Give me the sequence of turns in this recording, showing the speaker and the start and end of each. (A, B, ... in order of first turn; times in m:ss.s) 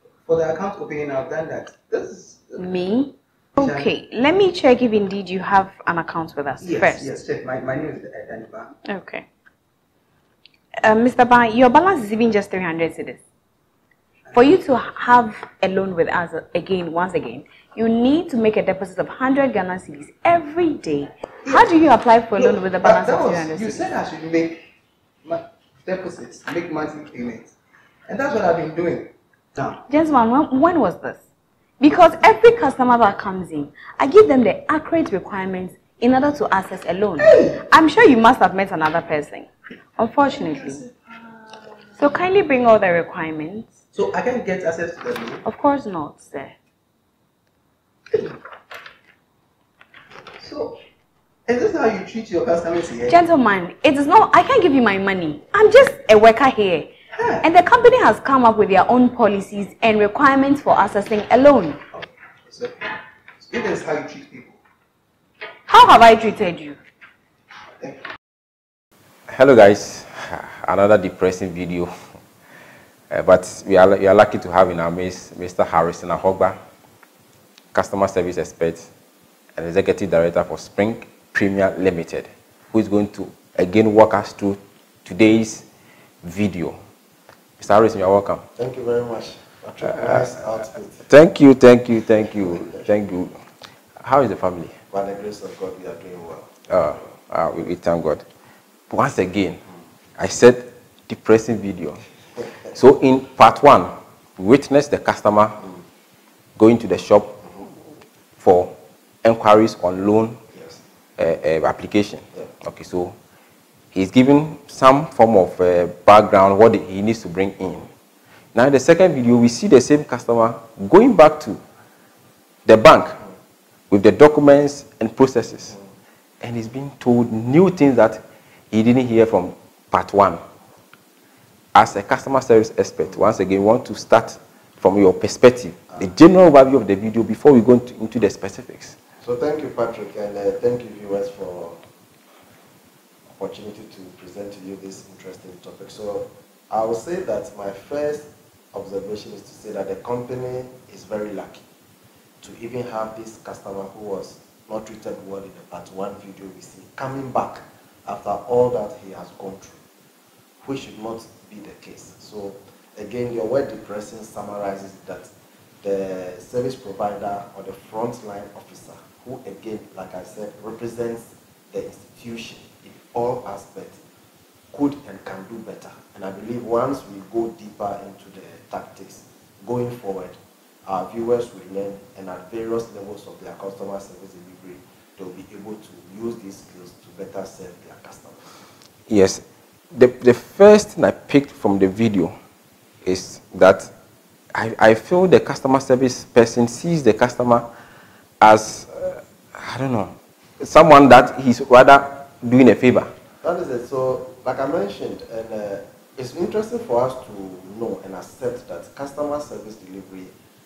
0:00.2-0:02.7 A
0:02.6-0:07.1 B
0:03.6-0:03.9 A
0:06.6-0:08.7 A
0:08.8-0:09.3 B
0:10.8-0:13.2 B
0:14.3-0:23.9 B
0:21.4-0:21.7 A
0:22.4-0:24.6 A
0:25.2-0:27.5 A
0:28.1-0:29.8 A
0:29.8-0:31.2 B
0:31.8-0:40.8 B
0:37.2-0:37.6 A
0:40.3-0:42.0 A
0:42.0-0:43.7 B
0:43.9-0:45.4 A
0:45.4-0:46.5 B
0:50.4-0:50.8 A
0:51.5-0:53.2 A
0:53.0-1:01.8 B
0:57.2-0:57.4 A
1:01.9-1:04.6 A
1:05.7-1:06.8 B
1:07.8-1:08.0 A
1:09.3-1:11.9 C
1:13.1-1:16.6 C
1:17.7-1:18.9 C
1:19.6-1:25.7 C
1:26.2-1:26.8 C
1:27.6-1:28.4 C
1:28.6-1:31.0 D
1:30.0-1:30.3 C
1:31.0-1:33.4 C
1:34.0-1:34.8 C
1:34.9-1:37.1 D
1:36.7-1:38.2 C
1:38.9-1:39.6 C
1:40.2-1:42.0 C
1:42.7-1:45.6 C
1:46.6-1:47.4 C
1:48.4-1:50.4 C
1:51.2-1:53.2 C
1:53.9-1:57.9 C
1:58.6-2:01.6 C
2:02.7-2:03.2 C
2:03.9-2:05.8 C
2:06.4-2:10.4 C
2:11.7-2:19.0 C
2:19.2-2:21.8 D
2:23.3-2:31.6 D
2:32.4-2:39.8 D
2:40.6-2:54.0 D
2:54.7-3:08.5 D
3:09.1-3:12.3 C
3:13.0-3:13.9 C
3:14.5-3:17.7 C
3:18.4-3:23.1 C
3:23.4-3:30.3 D